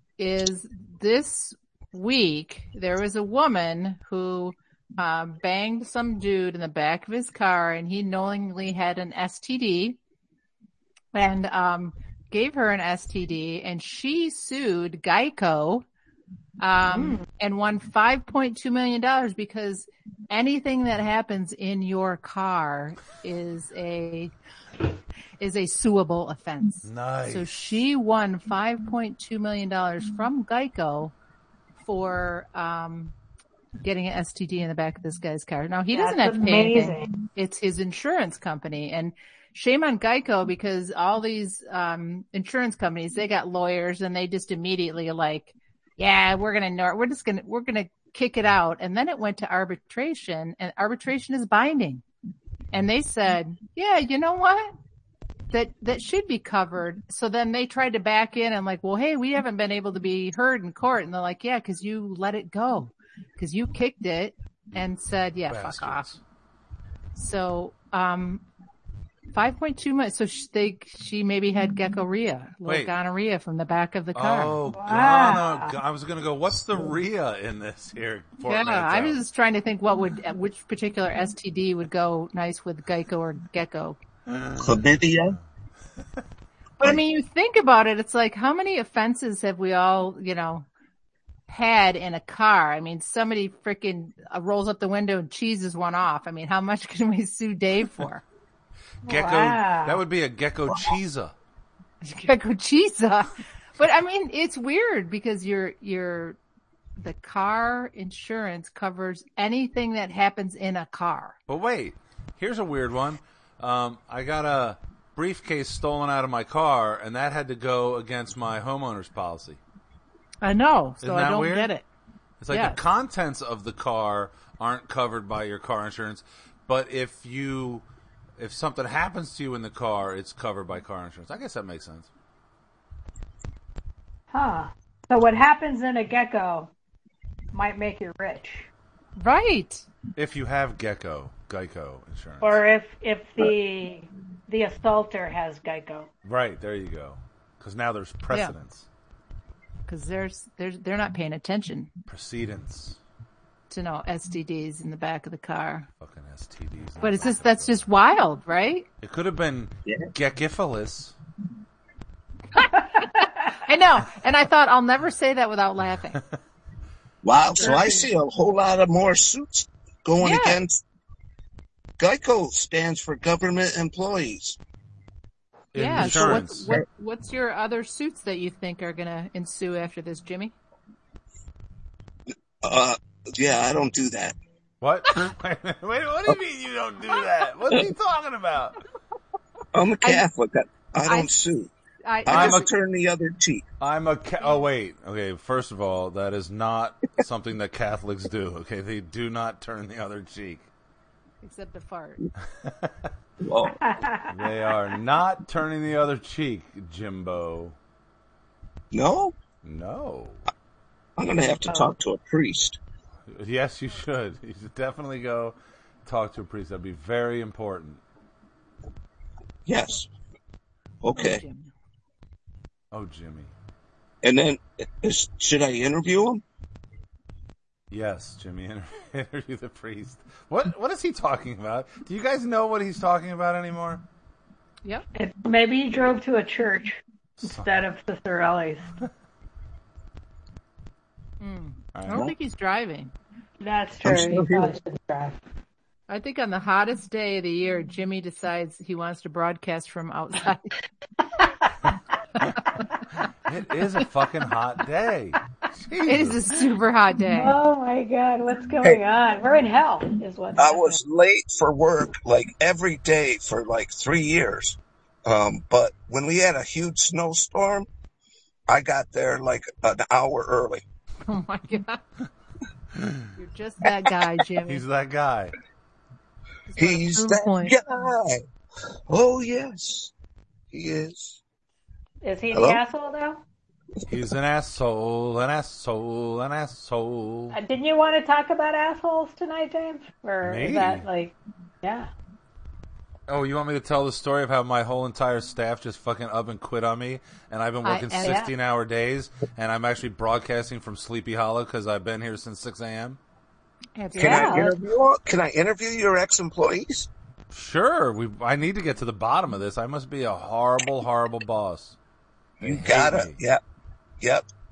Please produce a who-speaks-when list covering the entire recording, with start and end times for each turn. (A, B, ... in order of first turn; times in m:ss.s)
0:00.2-0:10.0 A
0:11.1-0:15.8 A
0:16.6-0:24.3 A
0:16.9-0:17.2 B
0:25.4-0:31.1 A
0:26.8-0:27.7 C
0:31.9-0:33.1 A
0:33.8-0:52.0 A
0:35.9-0:37.1 B
0:52.7-0:54.8 A
0:55.5-1:06.1 A
1:05.5-1:06.2 C
1:07.2-1:08.4 A
1:09.3-1:14.6 A
1:12.7-1:12.9 C
1:14.1-1:19.2 C
1:14.8-1:15.8 B
1:18.5-1:24.0 A
1:24.3-1:24.7 C
1:24.6-1:25.4 D
1:26.8-1:30.7 A
1:31.5-1:38.2 A
1:39.0-1:40.0 B
1:39.0-1:41.3 C
1:42.0-1:46.4 A
1:47.0-1:51.4 A
1:51.5-1:59.6 C
2:00.4-2:01.8 A
2:01.0-2:01.7 C
2:02.4-2:07.8 C
2:02.5-2:02.8 A
2:08.4-2:12.1 C
2:14.3-2:16.7 B
2:17.5-2:18.7 B
2:19.2-2:19.9 A
2:20.2-2:22.6 C
2:22.4-2:26.1 B
2:26.2-2:28.9 C
2:29.9-2:31.9 A
2:32.1-2:33.0 C
2:33.7-2:35.9 A
2:36.0-2:37.8 C
2:37.0-2:38.9 A
2:39.0-2:41.2 C
2:43.5-2:46.2 A
2:47.2-2:50.8 D
2:47.6-2:48.1 B
2:50.2-2:50.6 A
2:52.0-2:54.6 D
2:55.7-2:56.7 C
2:55.8-3:00.6 A
2:56.0-2:56.8 D
3:02.6-3:04.4 D
3:04.8-3:08.8 C
3:09.7-3:11.7 D
3:11.0-3:11.3 A
3:12.0-3:12.7 A
3:12.2-3:13.7 D
3:12.3-3:12.6 C
3:13.8-3:20.7 C
3:21.4-3:22.2 A
3:22.6-3:22.9 C
3:23.4-3:23.8 D
3:23.8-3:24.3 B
3:24.3-3:27.8 C
3:28.9-3:29.4 D
3:29.6-3:30.4 C
3:31.2-3:32.8 D
3:31.7-3:31.9 B
3:33.3-3:38.0 C
3:39.7-3:40.1 D
3:41.0-3:41.4 D
3:41.2-3:41.7 A
3:42.9-3:43.5 C
3:44.2-3:46.4 D
3:47.9-3:54.0 C
3:55.2-3:58.9 B
3:57.4-3:57.7 C
4:01.4-4:03.1 A
4:01.9-4:02.3 C
4:03.6-4:05.4 B
4:04.0-4:04.7 D
4:06.1-4:10.7 A
4:13.4-4:16.4 C
4:16.0-4:17.6 A
4:17.4-4:21.0 B
4:20.6-4:27.9 D
4:28.7-4:30.8 D
4:31.3-4:32.0 A
4:33.0-4:33.3 C
4:33.4-4:34.8 A
4:34.6-4:35.6 C
4:36.7-4:37.8 A
4:36.8-4:38.4 D
4:39.1-4:40.1 D
4:40.7-4:41.4 D
4:42.2-4:43.4 B
4:42.5-4:42.8 D
4:44.1-4:47.6 C
4:47.5-4:52.1 B
4:50.4-4:51.1 C
4:53.3-5:03.2 C
4:57.8-4:58.4 A
4:58.2-4:58.5 B
5:04.0-5:04.7 A
5:04.1-5:07.1 D
5:04.2-5:04.7 B
5:07.5-5:12.0 C
5:12.6-5:13.6 D
5:12.6-5:13.4 C
5:14.2-5:14.4 D